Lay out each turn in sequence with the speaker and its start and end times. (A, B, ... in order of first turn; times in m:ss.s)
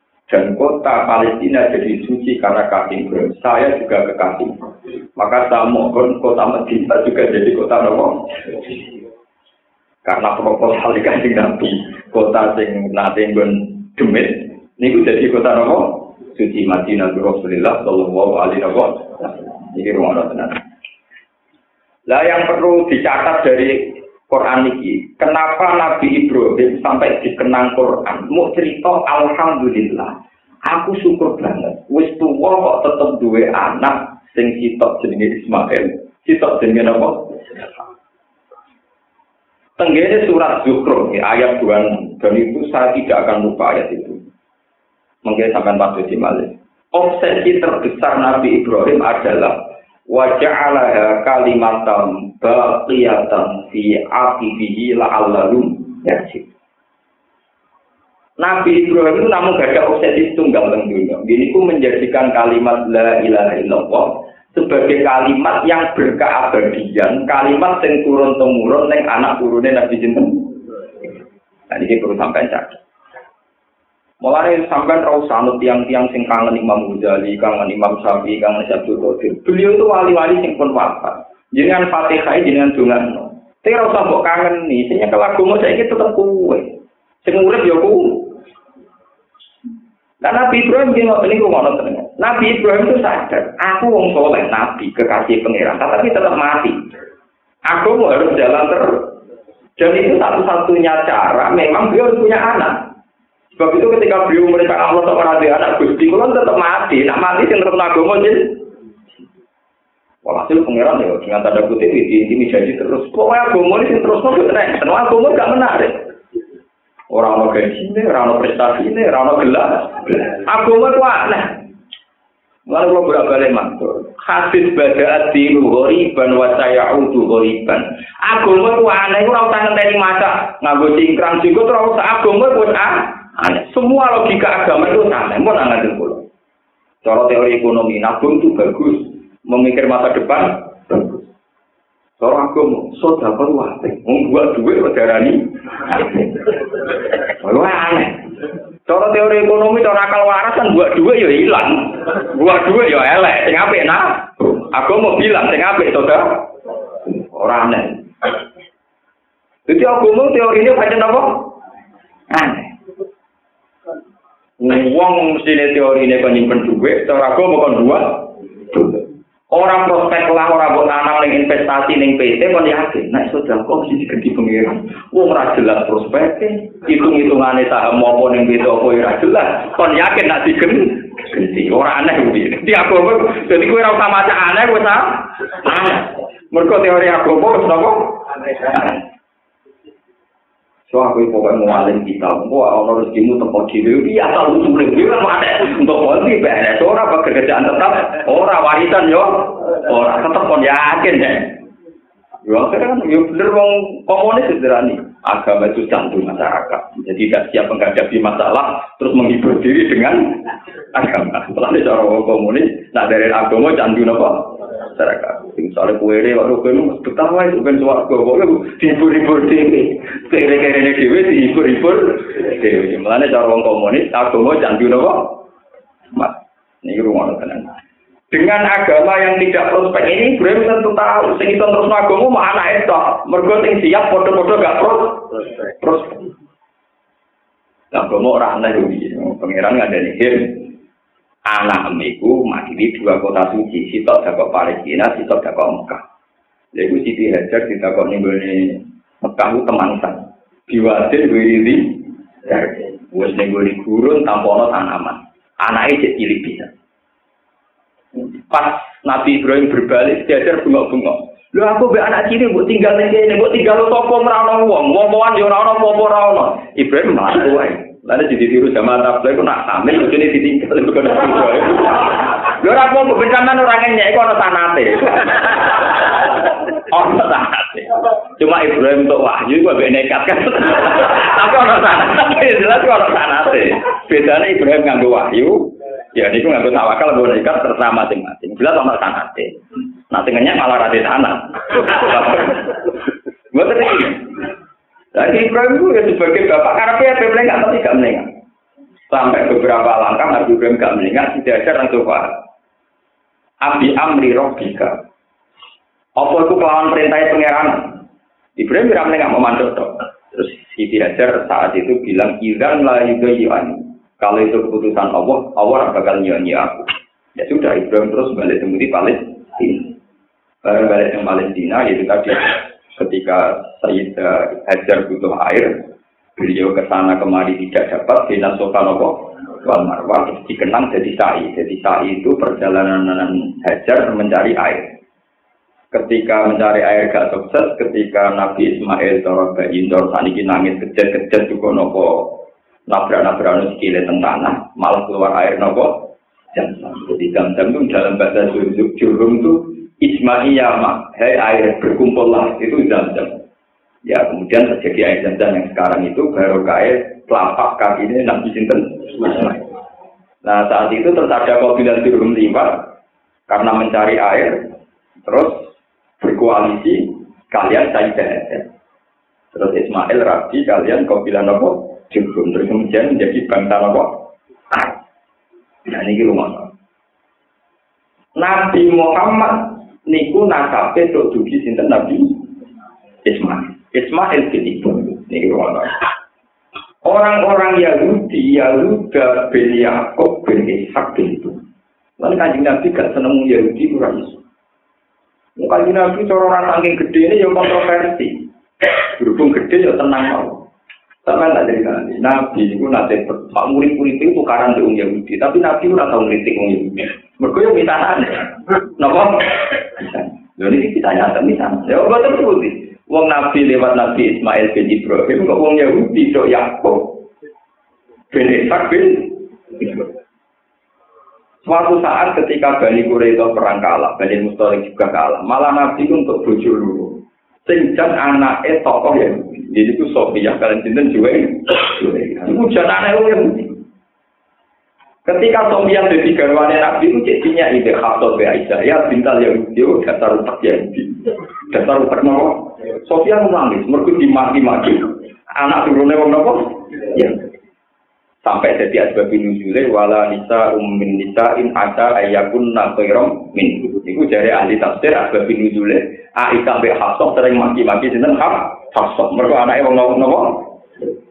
0:00.3-0:08.8 A
0:10.0-0:20.6 A
0:22.1-0:30.1 A
0:30.7-0:37.7 A
0:39.8-0:44.2 A
0:45.2-0:49.6 A
0:50.1-0:56.4 A
0:58.4-1:10.4 A
1:11.7-1:12.8 A
1:14.2-1:26.7 A
1:27.2-1:28.3 A
1:30.2-1:36.8 A
1:37.7-1:39.0 A
1:39.8-1:42.8 A
1:43.6-1:48.5 A
1:50.2-1:56.0 A
1:57.1-2:01.5 A
2:02.7-2:16.2 A
2:17.0-2:21.2 A
2:22.2-2:26.5 A
2:27.4-2:28.1 A
2:28.9-2:36.4 A
2:37.3-2:38.0 A
2:39.7-2:41.5 A
2:42.3-2:42.7 A
2:44.6-3:09.0 A
3:10.9-3:21.5 A
3:22.4-3:30.3 A
3:30.9-3:45.4 A
3:46.1-3:47.7 A
3:48.3-3:56.3 A
3:57.9-4:00.6 A
4:01.5-4:06.0 A
4:06.7-4:16.7 A
4:18.5-4:49.6 A
4:50.1-4:52.8 A
4:53.5-4:54.2 A
4:55.1-4:58.3 A
4:59.1-5:02.3 A
5:03.6-5:05.0 A
5:06.2-5:07.9 A
5:08.6-5:19.9 A
5:20.6-5:25.7 A
5:26.4-5:34.9 A
5:35.9-5:42.4 A
5:42.9-5:53.4 A
5:54.0-5:59.6 A
6:00.4-6:02.9 A
6:03.5-6:04.5 A
6:05.2-6:05.6 A
6:06.2-6:08.6 A
6:09.5-6:14.2 A
6:14.7-6:15.0 A
6:15.9-6:16.7 A
6:18.4-6:22.3 A
6:23.2-6:26.0 A
6:27.0-6:31.6 A
6:32.2-6:34.4 A
6:35.6-6:38.4 A
6:39.1-6:40.6 A
6:41.2-6:57.1 A
6:58.3-6:59.3 A
7:01.6-7:13.8 A
7:15.2-7:27.4 A
7:28.4-7:40.6 A